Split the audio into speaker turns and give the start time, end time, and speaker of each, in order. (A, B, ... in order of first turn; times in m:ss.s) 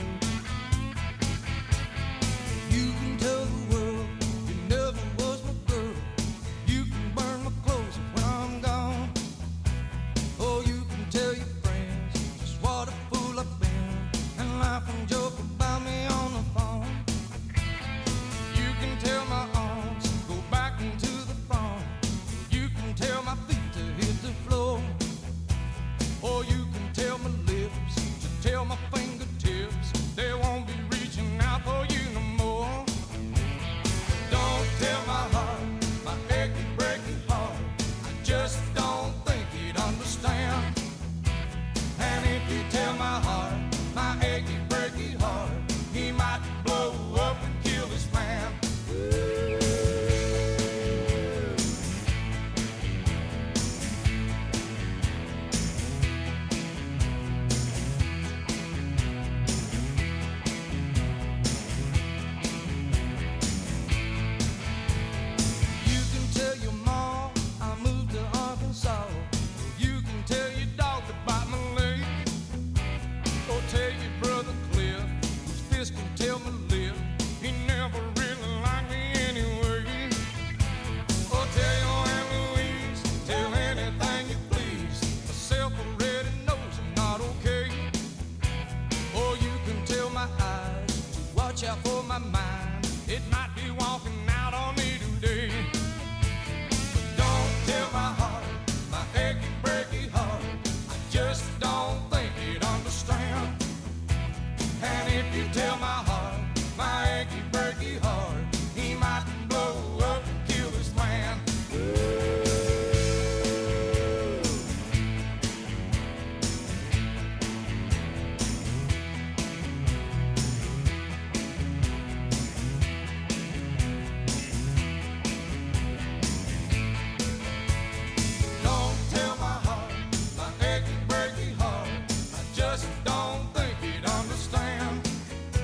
0:02.6-0:09.2 A
0:10.4-0:17.1 A
0:18.5-0:25.1 A
0:26.2-0:32.9 A
0:34.2-0:40.8 A
0:42.0-0:48.6 A
1:05.8-1:12.3 A
1:13.4-1:20.2 A
1:21.3-1:28.0 A
1:29.1-1:35.8 A
1:36.9-1:43.6 A
1:44.8-1:51.5 A
2:08.6-2:15.1 A